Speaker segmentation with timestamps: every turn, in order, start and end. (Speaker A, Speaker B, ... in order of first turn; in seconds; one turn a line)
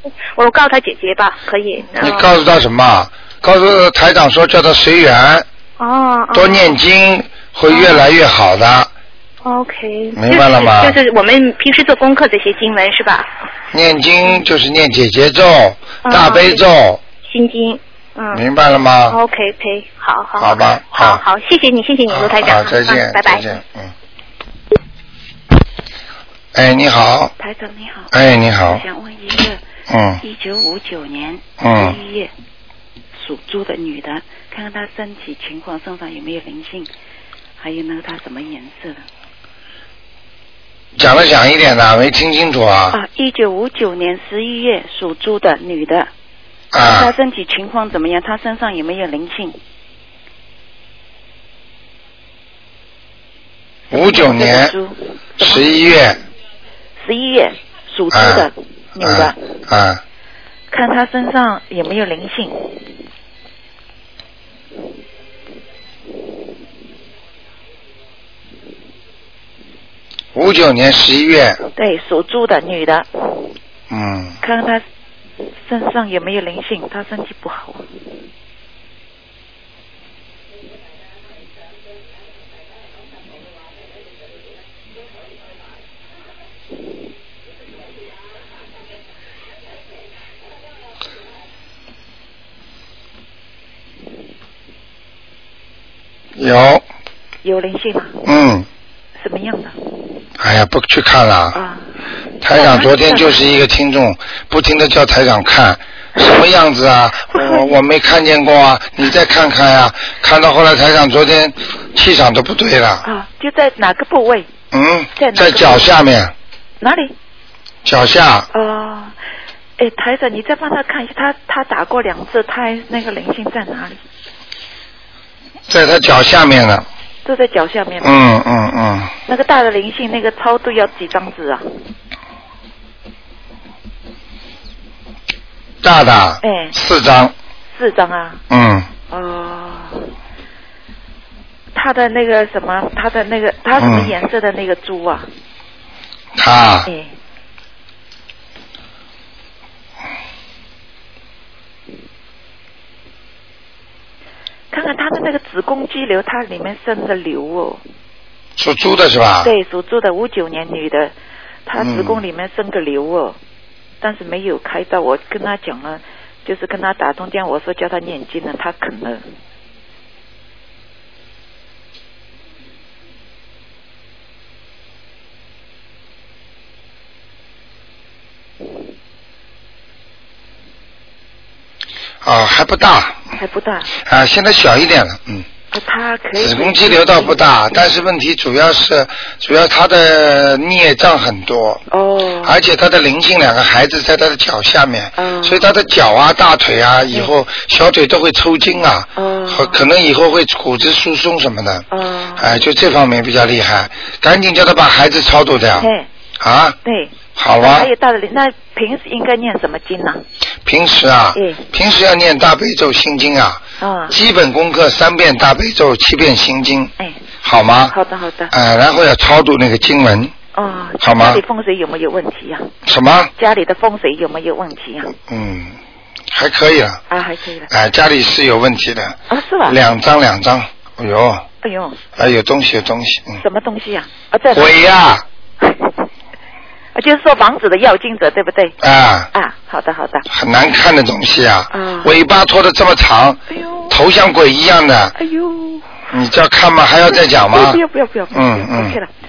Speaker A: 0.3-2.3
Speaker B: 2.0-5.5
Speaker A: 5.8-6.8
Speaker B: 6.3-8.9
Speaker A: 7.7-8.1
Speaker A: 9.4-13.3
Speaker B: 10.2-11.0
Speaker B: 13.7-17.0
Speaker A: 16.0-16.6
Speaker A: 17.2-18.4
Speaker B: 18.3-19.2
Speaker A: 19.1-23.6
Speaker B: 20.4-21.2
Speaker B: 22.1-23.9
Speaker B: 26.5-27.3
Speaker C: 27.4-28.1
Speaker B: 28.1-28.8
Speaker C: 28.6-29.6
Speaker B: 29.9-30.2
Speaker C: 30.2-32.3
Speaker B: 31.6-32.0
Speaker C: 33.1-36.9
Speaker C: 37.6-39.0
Speaker B: 41.0-43.0
Speaker C: 42.9-46.1
Speaker B: 46.7-47.1
Speaker C: 46.8-49.6
Speaker B: 53.9-54.7
Speaker C: 53.9-55.7
Speaker B: 55.4-56.2
Speaker C: 57.0-59.4
Speaker B: 58.1-60.0
Speaker C: 60.7-62.8
Speaker B: 70.3-71.6
Speaker C: 71.8-73.5
Speaker B: 73.9-74.4
Speaker C: 74.4-74.8
Speaker C: 75.6-77.9
Speaker B: 96.3-96.8
Speaker C: 97.4-98.2
Speaker B: 98.2-98.7
Speaker C: 99.2-99.8
Speaker B: 100.4-101.6
Speaker C: 101.5-101.9
Speaker B: 102.4-113.0
Speaker C: 102.4-103.4
Speaker C: 107.3-107.8
Speaker C: 113.0-114.5
Speaker B: 114.7-116.3
Speaker C: 115.2-115.9
Speaker C: 116.8-117.1
Speaker B: 117.8-118.5
Speaker C: 118.5-119.2
Speaker C: 119.8-124.0
Speaker B: 125.7-126.9
Speaker C: 127.2-128.1
Speaker B: 128.0-129.1
Speaker C: 129.3-131.7
Speaker B: 135.8-137.3
Speaker C: 136.4-136.8
Speaker C: 137.7-138.4
Speaker B: 138.5-138.9
Speaker C: 139.1-140.1
Speaker C: 141.7-145.3
Speaker B: 143.8-144.2
Speaker B: 146.3-146.9
Speaker C: 146.8-147.1
Speaker C: 154.7-157.8
Speaker B: 158.6-159.5
Speaker C: 159.4-161.1
Speaker C: 161.7-163.4
Speaker B: 161.8-162.2
Speaker C: 164.0-169.3
Speaker B: 182.2-183.3
Speaker C: 183.3-183.9
Speaker B: 183.9-185.5
Speaker C: 185.7-187.4
Speaker B: 186.4-191.8
Speaker C: 191.9-192.6
Speaker B: 192.4-201.8
Speaker C: 195.2-195.7
Speaker C: 199.2-199.8
Speaker C: 201.9-202.6
Speaker B: 202.4-206.8
Speaker C: 205.8-206.1
Speaker C: 206.8-210.2
Speaker B: 207.3-207.9
Speaker B: 210.6-216.9
Speaker C: 211.3-211.6
Speaker C: 213.8-214.2
Speaker C: 217.0-217.3
Speaker B: 217.4-217.9
Speaker C: 217.9-218.5
Speaker B: 218.5-220.3
Speaker C: 220.5-222.7
Speaker B: 221.0-221.4
Speaker B: 222.8-223.3
Speaker C: 223.4-225.1
Speaker B: 225.3-225.8
Speaker B: 226.3-227.0
Speaker C: 227.1-227.7
Speaker B: 227.7-231.4
Speaker C: 229.3-229.8
Speaker C: 231.6-232.1
Speaker B: 232.2-233.4
Speaker C: 233.4-234.7
Speaker B: 234.5-235.2
Speaker C: 235.6-236.1
Speaker C: 236.9-238.8
Speaker B: 238.8-239.3
Speaker C: 239.3-240.3
Speaker B: 240.3-245.1
Speaker C: 241.7-242.1
Speaker C: 243.5-244.0
Speaker C: 245.2-246.0
Speaker B: 246.1-247.8
Speaker C: 247.1-249.1
Speaker B: 248.3-249.0